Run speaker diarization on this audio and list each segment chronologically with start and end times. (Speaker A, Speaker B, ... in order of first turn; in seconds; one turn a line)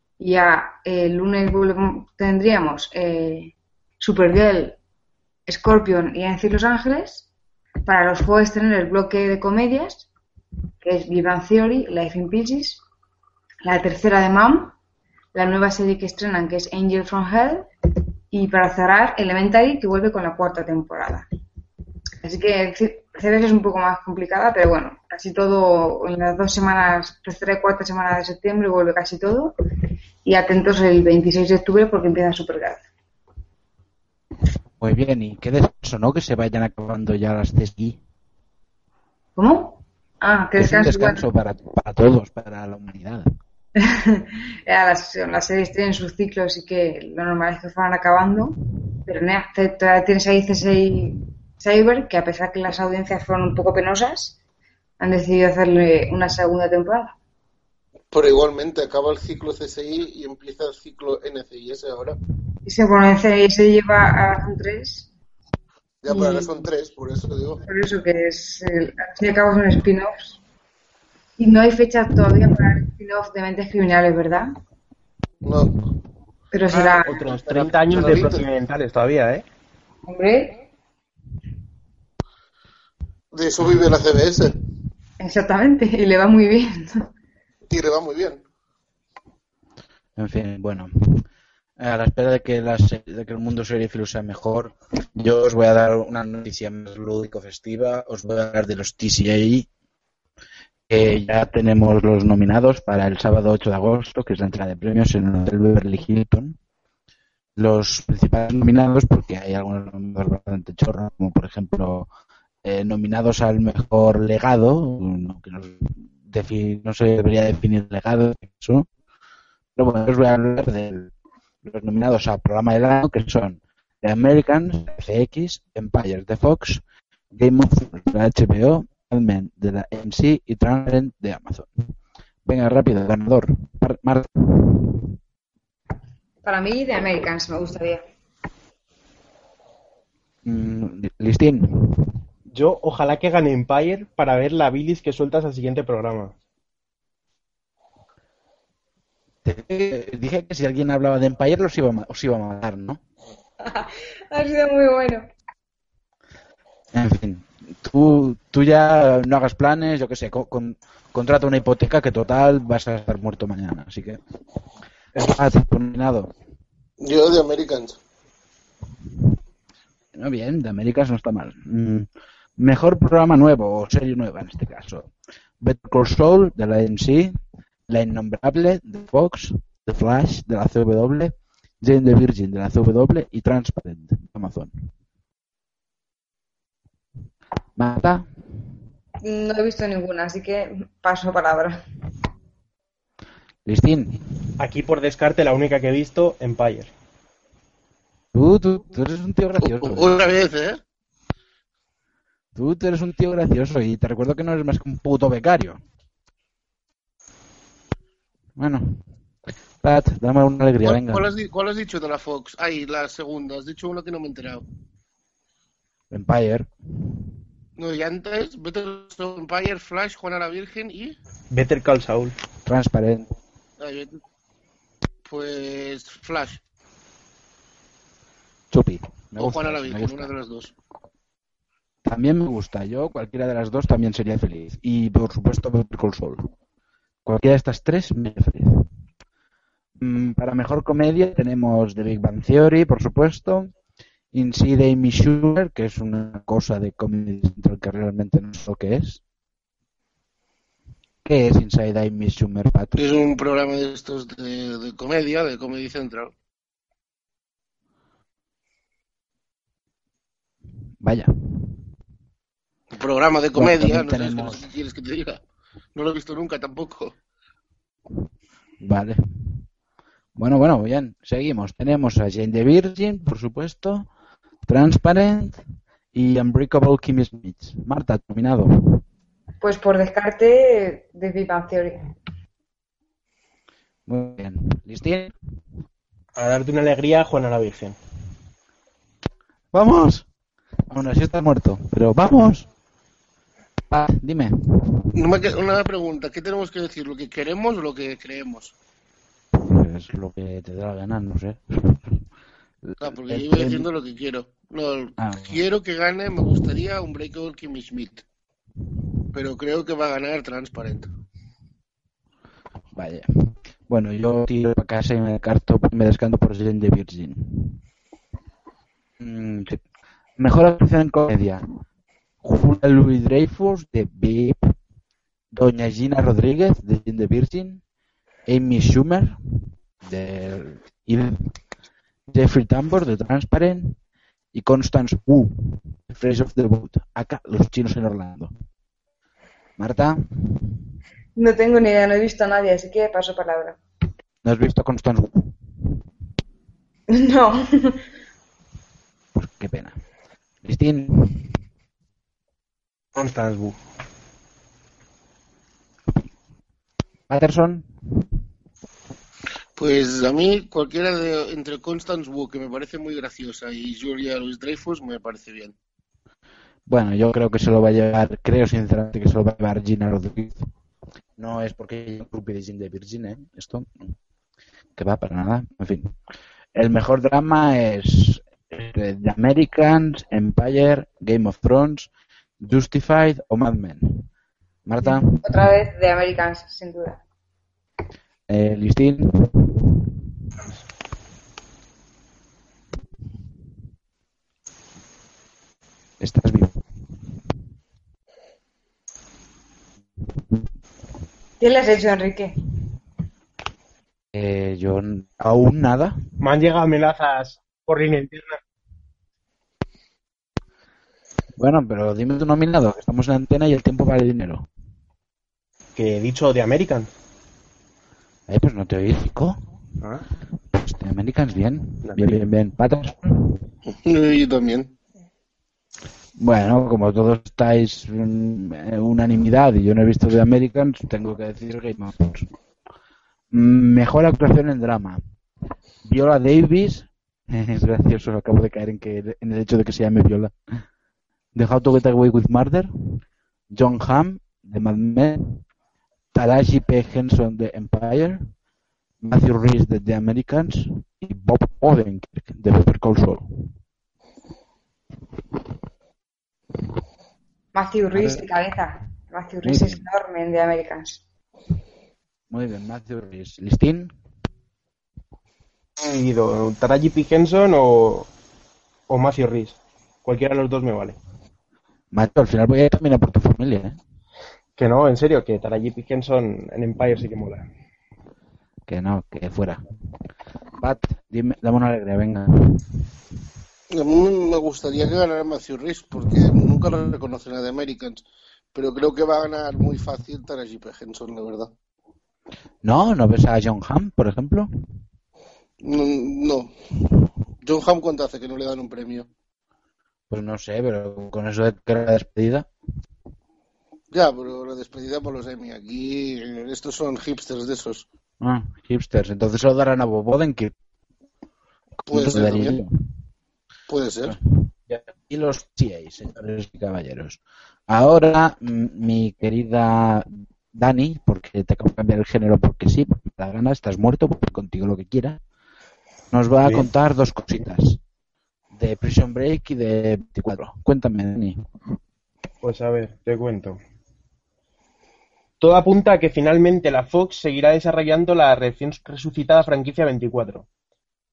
Speaker A: 0.2-4.8
Speaker A: 5.5-7.3
Speaker A: 7.8-10.1
Speaker A: 10.8-12.8
Speaker A: 13.6-14.8
Speaker A: 15.3-17.7
Speaker A: 18.3-21.3
Speaker A: 22.2-29.5
Speaker A: 30.2-32.9
Speaker B: 34.8-38.0
Speaker A: 39.4-41.2
Speaker B: 40.6-43.3
Speaker A: 43.8-54.4
Speaker A: 55.0-57.1
Speaker C: 58.1-62.2
Speaker A: 62.7-65.1
Speaker C: 66.0-67.6
Speaker A: 66.1-66.5
Speaker A: 67.7-70.4
Speaker A: 71.4-74.5
Speaker C: 75.5-75.8
Speaker A: 76.5-77.2
Speaker C: 76.8-78.5
Speaker D: 76.9-79.5
Speaker A: 80.1-80.5
Speaker C: 83.3-84.5
Speaker A: 85.2-86.9
Speaker C: 87.7-88.4
Speaker B: 90.2-91.3
Speaker B: 91.8-99.7
Speaker B: 100.9-106.6
Speaker B: 107.6-112.1
Speaker B: 112.6-118.9
Speaker B: 119.8-121.1
Speaker B: 121.6-126.8
Speaker B: 127.3-131.7
Speaker B: 132.4-135.1
Speaker A: 136.4-138.0
Speaker B: 140.4-142.1
Speaker D: 142.5-146.3
Speaker B: 149.4-153.0
Speaker A: 153.7-155.2
Speaker B: 156.9-164.2
Speaker B: 165.2-166.3
Speaker C: 167.0-168.0
Speaker B: 170.2-184.7
Speaker B: 187.8-188.3
Speaker A: 189.2-191.8
Speaker B: 193.7-194.4
Speaker D: 194.6-196.9
Speaker B: 198.3-200.3
Speaker C: 199.6-200.8
Speaker B: 202.6-205.8
Speaker B: 208.6-209.0
Speaker B: 209.8-211.2
Speaker C: 210.8-214.6
Speaker B: 216.1-216.7
Speaker C: 217.8-221.2
Speaker D: 221.5-222.3
Speaker B: 222.7-223.3
Speaker C: 223.8-224.2
Speaker C: 225.2-226.6
Speaker B: 228.7-230.3
Speaker C: 229.4-230.7
Speaker B: 232.0-236.5
Speaker B: 237.2-238.9
Speaker B: 240.0-243.7
Speaker B: 244.3-249.2
Speaker B: 251.2-253.2
Speaker C: 253.0-256.3
Speaker B: 261.0-261.9
Speaker C: 262.9-265.4
Speaker B: 263.6-264.6
Speaker C: 265.9-267.1
Speaker B: 268.8-269.6
Speaker B: 270.4-274.1
Speaker B: 274.7-275.6
Speaker B: 276.1-279.0
Speaker A: 279.6-282.0
Speaker B: 284.1-285.3
Speaker D: 286.4-288.0
Speaker B: 289.7-290.2
Speaker B: 290.9-292.7
Speaker B: 293.9-295.1
Speaker C: 295.1-298.7
Speaker B: 299.5-302.2
Speaker B: 302.8-303.9
Speaker C: 303.0-308.2
Speaker B: 305.2-305.6
Speaker C: 309.3-311.1
Speaker B: 312.9-317.8
Speaker B: 319.2-319.8
Speaker B: 320.4-321.6
Speaker B: 322.4-324.7
Speaker B: 325.5-327.8
Speaker B: 328.5-329.4
Speaker B: 330.0-331.5
Speaker B: 332.3-334.0
Speaker B: 334.5-338.5
Speaker B: 339.8-340.6
Speaker A: 341.4-343.8
Speaker B: 344.4-345.6
Speaker A: 347.1-348.0
Speaker B: 349.4-350.0
Speaker B: 350.6-351.5
Speaker D: 353.1-353.8
Speaker B: 357.3-357.9
Speaker C: 359.8-365.8
Speaker B: 366.9-370.7
Speaker B: 371.4-374.0
Speaker B: 375.0-376.1
Speaker B: 376.7-382.1
Speaker B: 382.6-384.3
Speaker B: 384.9-385.7
Speaker A: 385.0-387.2
Speaker B: 388.5-390.2
Speaker B: 396.2-396.8
Speaker A: 401.6-402.6
Speaker B: 404.3-406.2
Speaker D: 406.4-408.6
Speaker B: 411.6-414.7
Speaker D: 416.0-417.1
Speaker B: 418.5-419.6
Speaker B: 420.7-423.6
Speaker D: 422.1-422.4
Speaker C: 423.9-424.9
Speaker B: 426.4-432.5
Speaker B: 433.5-435.2
Speaker B: 436.1-440.6
Speaker B: 441.6-445.6
Speaker B: 446.3-448.5
Speaker B: 449.2-453.4
Speaker A: 457.8-461.2
Speaker B: 458.1-458.4
Speaker B: 459.6-460.0
Speaker B: 462.5-464.1
Speaker D: 466.0-468.3
Speaker D: 469.1-471.2
Speaker B: 472.1-474.0
Speaker D: 474.8-477.6
Speaker B: 478.9-479.8
Speaker B: 480.8-482.9
Speaker C: 483.9-488.2
Speaker C: 488.7-491.7
Speaker B: 492.8-494.7
Speaker C: 495.8-496.7
Speaker C: 497.6-499.3
Speaker B: 500.3-502.7
Speaker C: 504.1-508.1
Speaker B: 508.4-510.8
Speaker B: 512.0-512.9
Speaker C: 512.1-512.8
Speaker C: 513.9-514.4
Speaker B: 514.2-517.4
Speaker B: 517.9-525.4
Speaker B: 526.3-528.0
Speaker B: 528.7-531.6
Speaker D: 532.6-533.8
Speaker D: 535.6-540.7